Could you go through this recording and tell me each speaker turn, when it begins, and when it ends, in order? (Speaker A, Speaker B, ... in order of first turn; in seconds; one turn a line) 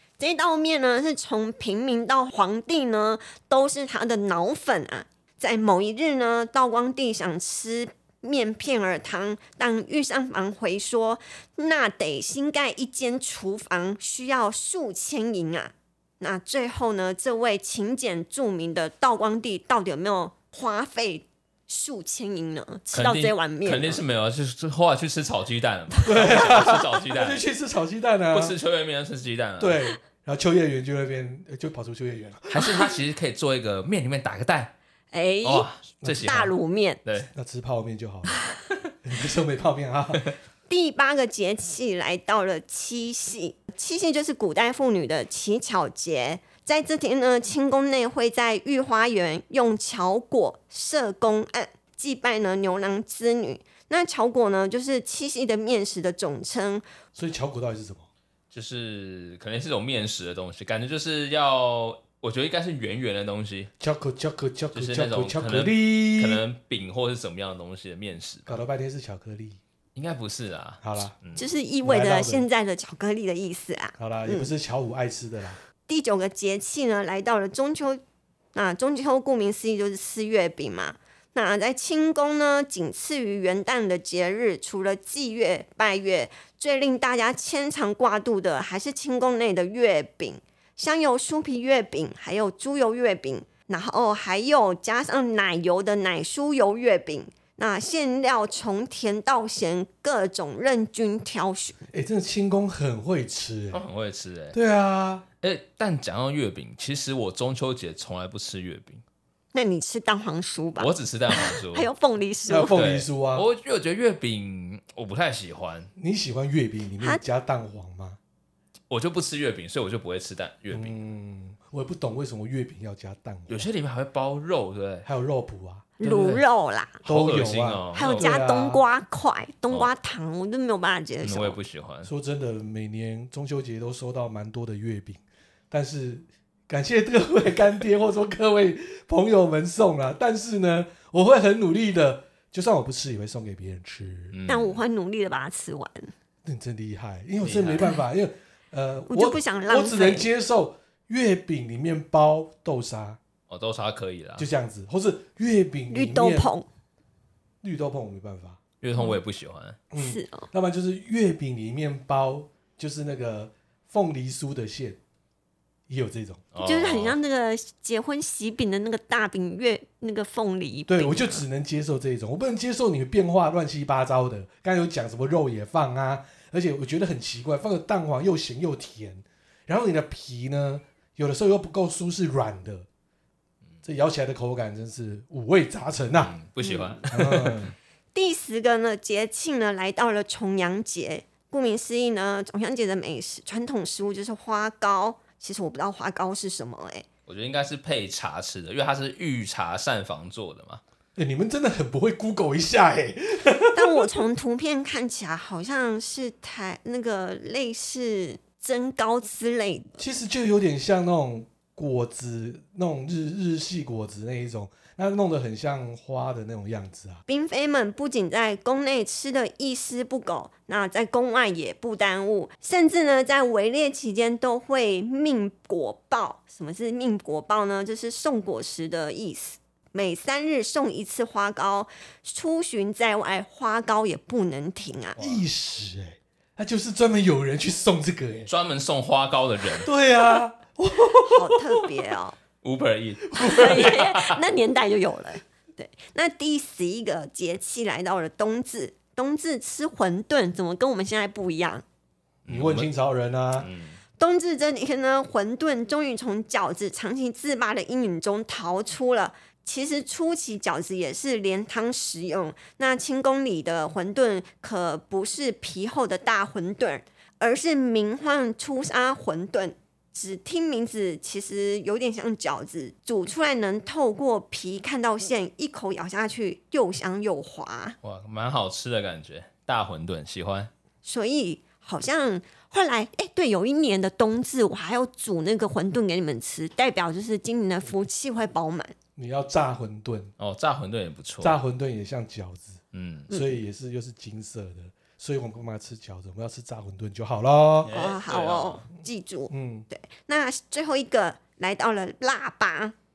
Speaker A: 0.2-24.0
Speaker B: 22.9-27.4
Speaker C: 26.1-28.6
Speaker B: 28.3-29.9
Speaker C: 29.6-32.9
Speaker B: 32.5-34.7
Speaker A: 35.1-37.0
Speaker B: 35.4-36.5
Speaker C: 36.0-36.4
Speaker B: 37.0-37.3
Speaker C: 37.3-38.4
Speaker C: 39.0-40.3
Speaker A: 40.7-56.9
Speaker C: 57.1-58.1
Speaker B: 58.5-63.7
Speaker C: 63.8-66.4
Speaker B: 64.7-68.6
Speaker C: 68.5-69.6
Speaker B: 69.9-71.5
Speaker C: 70.8-71.1
Speaker A: 71.4-74.5
Speaker C: 71.8-72.4
Speaker C: 74.0-75.6
Speaker A: 75.9-78.0
Speaker A: 78.5-101.8
Speaker C: 101.9-103.8
Speaker B: 103.7-104.6
Speaker C: 104.5-105.2
Speaker B: 105.4-109.0
Speaker A: 109.5-112.7
Speaker B: 110.8-111.9
Speaker C: 112.5-113.5
Speaker B: 112.7-115.9
Speaker C: 116.0-118.2
Speaker B: 118.9-121.0
Speaker C: 120.7-123.7
Speaker B: 123.5-125.1
Speaker C: 125.0-125.9
Speaker A: 126.0-127.0
Speaker B: 126.0-126.4
Speaker B: 127.0-128.4
Speaker C: 127.0-128.8
Speaker A: 127.9-131.6
Speaker B: 131.2-132.1
Speaker C: 132.0-144.3
Speaker B: 144.3-144.8
Speaker A: 144.5-146.1
Speaker C: 146.4-153.2
Speaker B: 147.4-147.9
Speaker A: 149.1-150.3
Speaker B: 153.5-154.5
Speaker C: 154.4-156.5
Speaker A: 155.9-156.7
Speaker C: 157.6-158.6
Speaker B: 158.8-159.8
Speaker C: 159.9-165.0
Speaker A: 160.0-160.5
Speaker C: 165.9-166.4
Speaker B: 166.5-167.1
Speaker A: 166.6-171.4
Speaker C: 170.9-182.9
Speaker C: 183.8-186.3
Speaker B: 186.2-187.7
Speaker A: 186.6-187.0
Speaker C: 187.1-187.7
Speaker A: 188.1-197.1
Speaker B: 197.3-200.8
Speaker C: 201.2-204.2
Speaker A: 203.7-210.0
Speaker C: 210.0-217.2
Speaker A: 217.3-235.2
Speaker C: 235.2-238.5
Speaker B: 238.5-239.9
Speaker C: 239.7-241.9
Speaker A: 241.2-242.4
Speaker B: 242.6-244.4
Speaker C: 243.3-243.9
Speaker A: 243.4-251.8
Speaker B: 252.4-252.9
Speaker C: 252.5-253.7
Speaker B: 253.6-254.0
Speaker A: 254.2-277.9
Speaker B: 278.0-280.7
Speaker A: 281.0-288.9
Speaker C: 289.1-290.3
Speaker B: 290.4-291.6
Speaker C: 291.4-297.9
Speaker B: 292.9-293.3
Speaker A: 293.3-293.6
Speaker B: 297.8-298.8
Speaker A: 297.9-302.9
Speaker C: 299.5-299.9